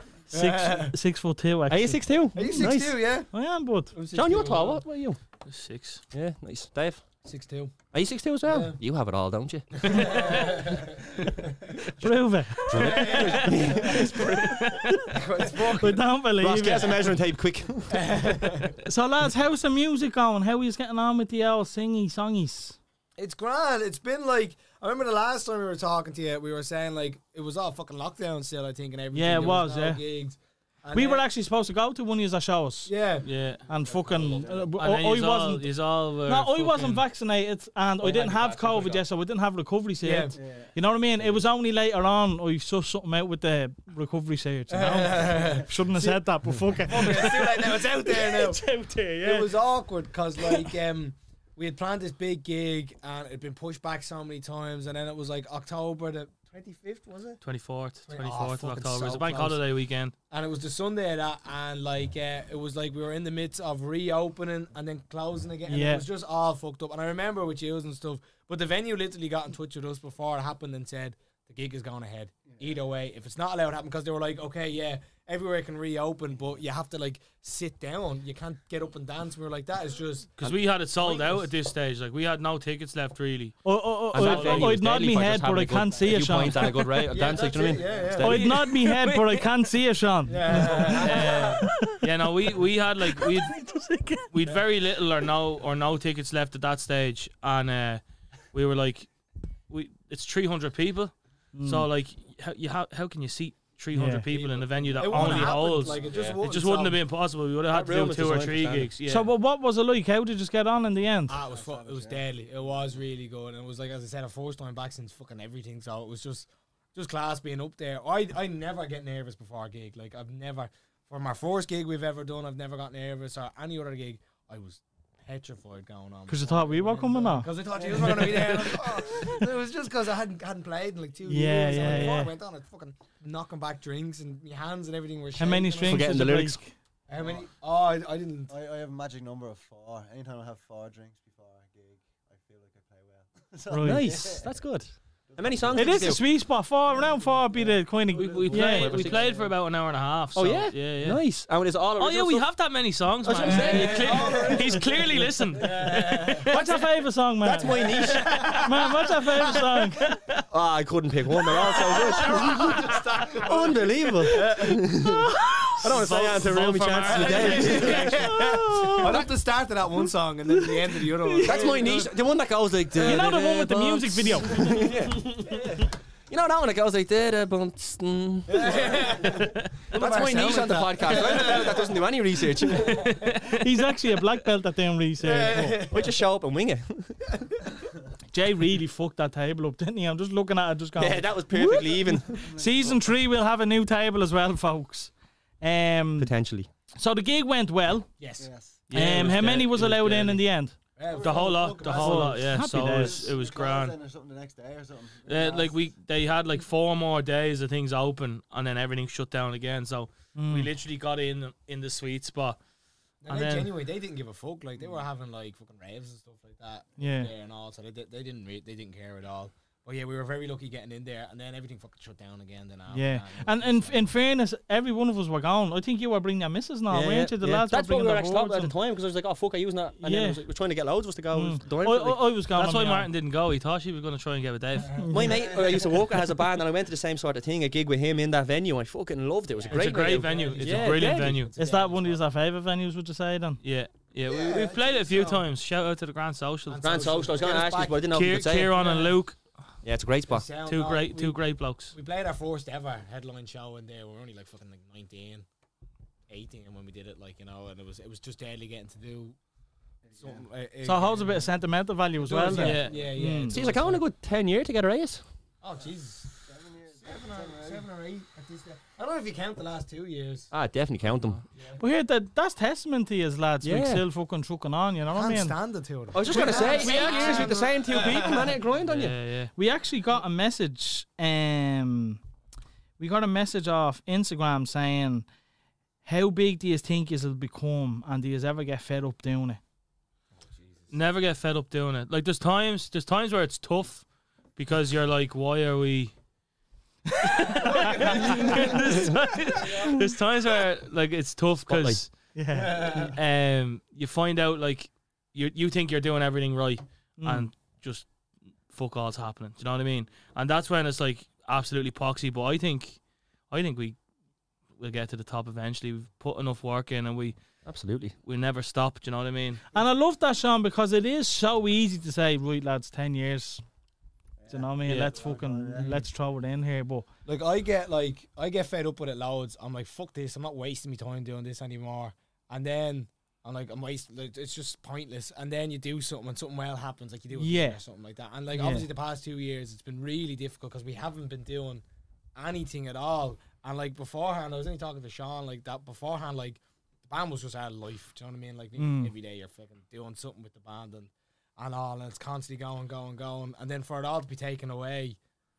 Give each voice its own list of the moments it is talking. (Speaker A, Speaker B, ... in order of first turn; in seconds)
Speaker A: 0.3-2.7, 3.3-3.9, 12.0-13.6, 14.6-17.1, 18.9-22.8, 29.1-30.0, 30.9-32.9, 33.7-35.7, 36.3-49.5, 65.7-66.0, 83.6-87.0, 88.2-92.0, 93.2-94.5, 101.5-101.9, 103.9-104.3, 109.1-111.4, 126.3-129.0, 131.3-132.3, 135.4-136.7, 143.7-144.1, 145.8-149.1, 156.5-157.8, 158.6-160.1, 165.1-165.8, 168.1-169.3, 170.5-171.8, 173.0-174.7, 183.5-185.9, 188.3-196.3, 197.0-198.1, 198.9-200.8, 202.0-203.3, 210.4-210.7, 217.0-217.3, 222.9-228.8, 230.0-230.4, 231.3-233.1, 235.0-235.3, 241.6-243.6, 260.8-263.6, 271.8-275.6, 279.6-282.2, 283.0-285.3, 286.1-289.6, 298.1-298.6, 302.4-302.9, 307.2-307.5, 319.7-323.6, 324.5-327.1, 337.3-337.8, 338.5-338.9, 348.8-349.1
Speaker B: 0.3-0.9, 2.4-3.3, 3.9-4.8, 7.2-7.8, 8.4-8.8, 9.8-12.0, 12.7-16.2, 17.9-18.8, 23.2-31.2, 32.9-33.3, 38.0-39.0, 40.0-40.4, 44.7-46.2, 46.8-48.6, 49.2-57.4, 58.1-59.6, 60.3-80.4, 81.0-81.5, 87.0-88.8, 90.3-91.7, 104.3-107.0, 111.3-136.2, 137.1-138.5, 148.2-149.5, 153.4-156.5, 157.7-159.7, 161.5-165.1, 167.0-172.2, 178.5-182.0, 182.7-183.3, 185.2-186.2, 198.2-198.5, 201.0-202.6, 213.2-224.1, 234.9-235.9, 239.6-242.2, 244.2-245.4, 246.7-249.2, 250.3-251.4, 251.9-255.4, 256.3-259.4, 260.2-261.5, 262.3-264.0, 265.6-266.3, 267.0-270.5, 271.6-271.8, 275.1-278.6, 290.5-290.9, 297.5-300.0, 302.5-303.2, 325.8-326.0, 327.3-341.8, 342.4-355.2
Speaker C: 1.7-3.0, 4.1-5.2, 6.1-7.0, 7.9-10.3, 12.7-14.5, 16.4-18.2, 84.1-88.7, 106.1-106.4, 107.7-108.9, 135.8-136.6, 143.8-146.3, 148.5-149.3, 150.3-152.5, 153.2-154.6, 157.4-158.6, 160.5-165.3, 165.8-169.2, 171.4-175.6, 176.3-183.0, 185.9-187.2, 191.0-192.5, 196.2-196.7, 199.0-199.6, 226.9-232.3, 235.1-241.4, 246.8-248.8, 249.8-250.5, 262.3-262.8, 263.4-265.2, 270.5-271.4, 273.6-274.1, 276.1-279.2, 301.7-302.0, 317.6-318.2
Speaker D: 5.5-6.0, 9.9-10.6, 14.4-15.0, 33.2-33.6, 34.8-37.0, 57.4-60.1, 80.4-84.8, 90.5-93.6, 94.3-98.0, 98.5-99.1, 99.7-109.3, 148.1-151.3, 152.0-156.8, 160.0-160.4, 162.0-163.0, 165.8-168.1, 182.8-183.6, 198.9-200.4, 201.1-204.0, 205.3-212.6, 213.3-213.7, 232.5-235.0, 239.7-241.5, 243.6-246.9, 248.1-249.4, 250.6-252.0, 262.5-263.1, 278.8-279.5, 290.9-294.1, 294.6-296.1, 297.2-302.1, 302.7-308.1, 308.7-313.0, 313.5-314.0, 314.8-317.4, 318.2-319.6, 324.9-325.1
Speaker E: 33.7-34.8, 40.4-41.4, 72.5-72.8, 87.7-88.1, 105.9-106.3, 111.5-112.7, 137.2-137.5, 138.5-144.6, 145.3-146.2, 192.4-192.8, 198.4-198.8, 201.1-201.4, 202.7-205.7, 260.1-260.4, 266.4-267.9, 324.4-326.1